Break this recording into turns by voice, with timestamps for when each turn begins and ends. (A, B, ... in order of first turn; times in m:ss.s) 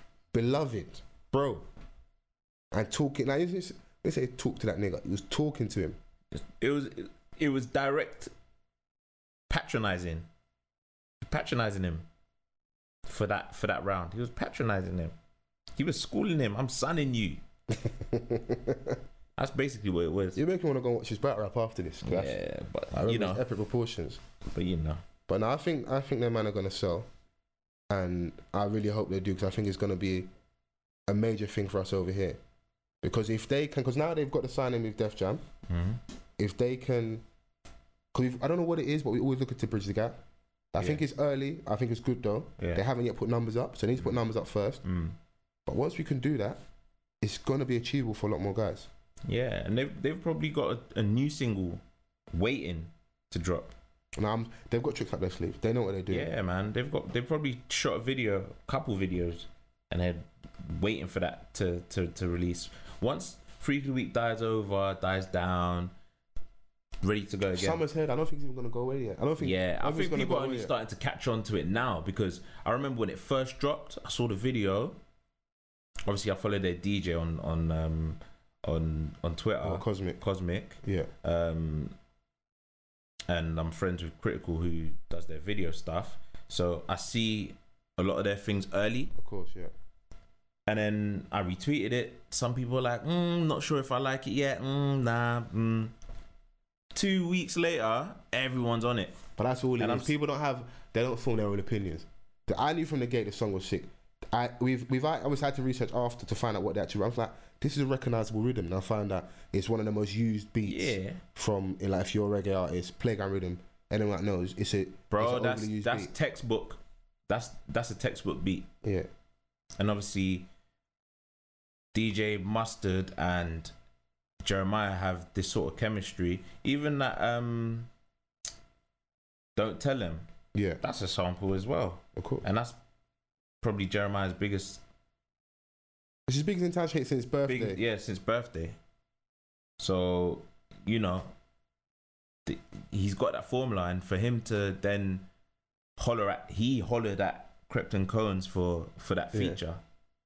0:00.3-0:01.6 A
0:02.7-0:06.0 A
0:06.3-0:08.3 B
0:09.5-0:10.3 B
0:11.2-0:12.0 B
0:13.0-0:15.1 B
0:15.8-0:17.4 B
0:17.8-0:19.0 A
0:19.4-0:20.4 B
0:20.3-0:22.4 A
0:22.0-0:23.4 B
0:22.9-0:24.2 A
0:24.5-0:25.0 B
0:25.3-0:27.1 A
0:27.9-0:30.3 A
0:31.1-0:32.4 A
0:33.0-0:35.4 A
0:35.7-0:36.0 B
0:36.4-0:37.2 A
0:38.1-0:40.2 A
0:40.7-0:44.8 A
0:42.6-0:42.8 B
0:44.0-0:44.2 B
0:44.8-0:45.2 B
0:45.6-0:46.6 A
0:47.2-0:48.9 A
0:49.2-0:51.8 B
0:52.3-0:53.7 B
0:54.2-0:56.3 A
0:56.1-1:05.9 B
1:07.0-1:07.8 B
1:07.5-1:10.7 A
1:09.4-1:15.0 B
1:16.0-1:21.9 B
1:19.6-1:20.2 A
1:20.8-1:21.1 A
1:23.3-1:29.1 B
1:29.2-1:29.7 A
1:30.7-1:35.9 B
1:36.9-1:39.2 B
1:39.4-1:56.1 A
1:39.8-1:40.1 B
1:50.6-1:51.2 B
1:55.1-1:58.7 B
1:58.8-1:59.1 A
1:59.8-2:00.5 B
2:01.9-2:03.7 B
2:04.4-2:07.9 B
2:09.6-2:10.3 B
2:10.5-2:10.8 A
2:10.8-2:12.8 B
2:12.2-2:12.4 A
2:13.6-2:14.8 B
2:16.3-2:17.8 A
2:17.5-2:18.8 B
2:19.8-2:21.3 B
2:22.4-2:25.2 B
2:26.0-2:29.8 B
2:29.3-2:29.6 A